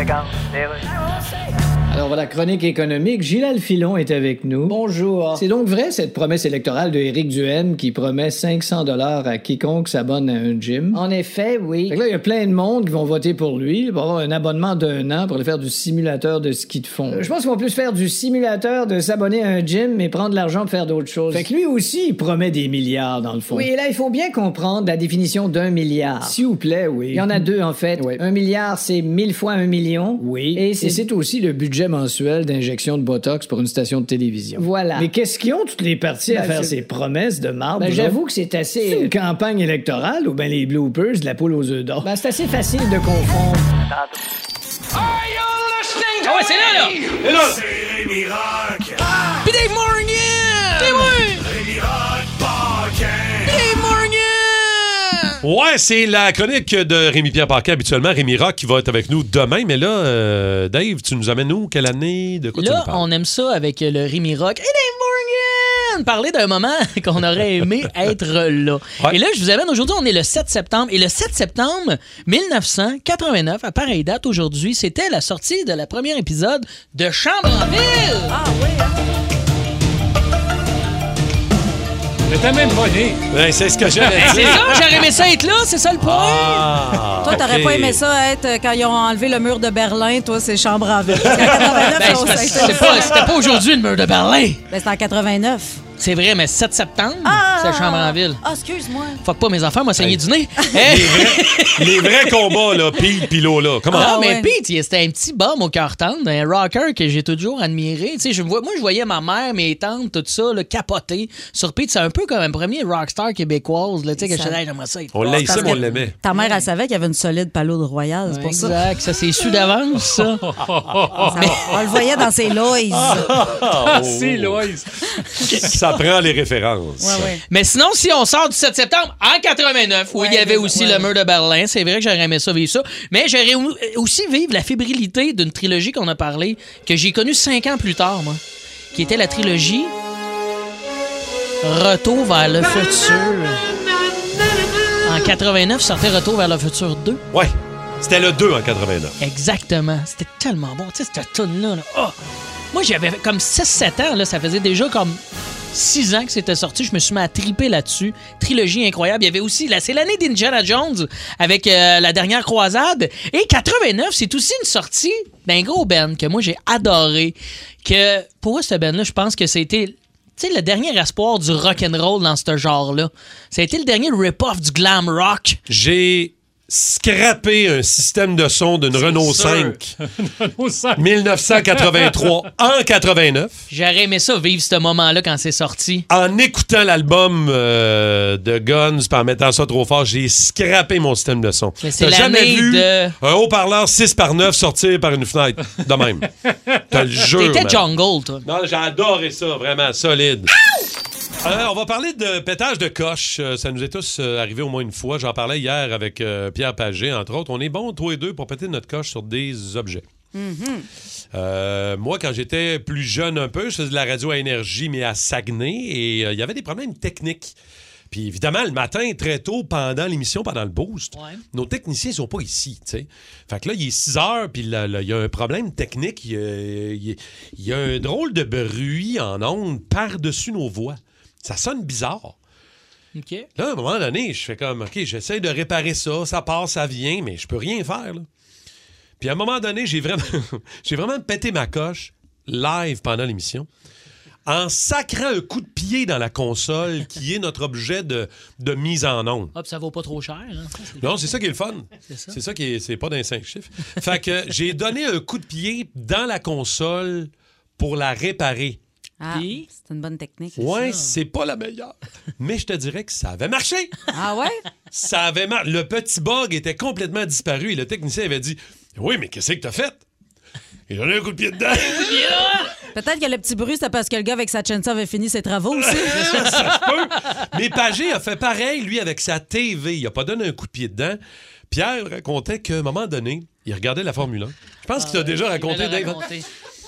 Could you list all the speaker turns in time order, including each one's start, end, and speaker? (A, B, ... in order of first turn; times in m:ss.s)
0:01.9-0:11.1 A
0:04.7-0:05.6 B
0:10.9-0:12.0 B
0:11.8-0:23.7 A
0:17.1-0:17.4 B
0:23.5-0:26.4 B
0:26.2-0:28.3 A
0:27.1-0:31.1 B
0:30.2-0:42.1 A
0:34.6-0:35.1 B
0:36.3-0:36.8 B
0:37.8-0:39.1 B
0:42.0-0:43.6 B
0:46.2-0:47.0 C
0:47.2-0:48.9 D
0:49.4-0:51.5 C
0:52.6-0:53.5 D
0:53.4-0:55.4 C
0:55.4-1:03.1 D
1:02.6-1:18.3 C
1:18.3-1:19.0 E
1:22.3-1:23.3 F
1:23.3-1:24.8 D
1:24.0-1:24.5 F
1:24.1-1:26.7 C
1:26.0-1:28.0 D
1:27.2-1:33.1 E
1:31.2-1:33.4 D
1:31.8-1:34.6 C
1:34.7-1:35.8 E
1:36.0-1:38.4 C
1:37.2-1:39.2 E
1:39.2-1:43.2 C
1:40.0-1:40.2 D
1:40.7-1:44.2 D
1:43.9-1:56.6 C
1:43.9-1:44.5 E
1:54.2-1:54.6 E
1:55.1-1:56.2 D
1:55.4-1:58.8 E
1:58.3-2:00.4 C
2:00.4-2:01.6 F
2:01.3-2:03.2 E
2:02.9-2:04.7 D
2:03.5-2:05.8 F
2:05.5-2:07.3 D
2:07.0-2:07.4 E
2:07.5-2:18.4 C
2:10.1-2:11.1 E
2:18.9-2:19.9 C
2:21.6-2:23.6 C
2:25.0-2:27.2 C
2:27.3-2:29.2 D
2:29.2-2:32.2 C
2:32.7-2:35.2 C
2:35.7-2:55.6 C
2:55.7-3:00.0 D
2:59.0-2:59.8 C
3:00.0-3:02.4 F
3:01.0-3:03.7 D
3:03.7-3:06.1 C
3:06.1-3:16.3 D
3:11.8-3:13.2 C
3:16.9-3:17.8 D
3:17.2-3:18.5 C
3:18.4-3:20.5 D
3:21.4-3:30.0 D
3:30.3-3:30.9 E
3:31.3-3:37.6 D
3:38.1-3:52.4 D
3:41.2-3:41.4 C
3:53.2-3:53.5 C
3:53.6-3:58.3 D
3:59.2-4:03.7 D
4:04.5-4:09.5 D
4:09.6-4:11.2 C
4:11.0-4:18.8 D
4:12.1-4:12.4 C
4:19.2-4:20.6 E
4:19.3-4:19.7 C
4:20.6-4:23.9 D
4:20.6-4:21.1 C
4:24.1-4:24.6 E
4:24.9-4:30.0 D
4:30.9-4:32.4 D
4:31.9-4:32.7 C
4:32.9-4:36.4 E
4:35.8-4:41.2 D
4:41.7-4:46.3 D
4:45.0-4:46.5 C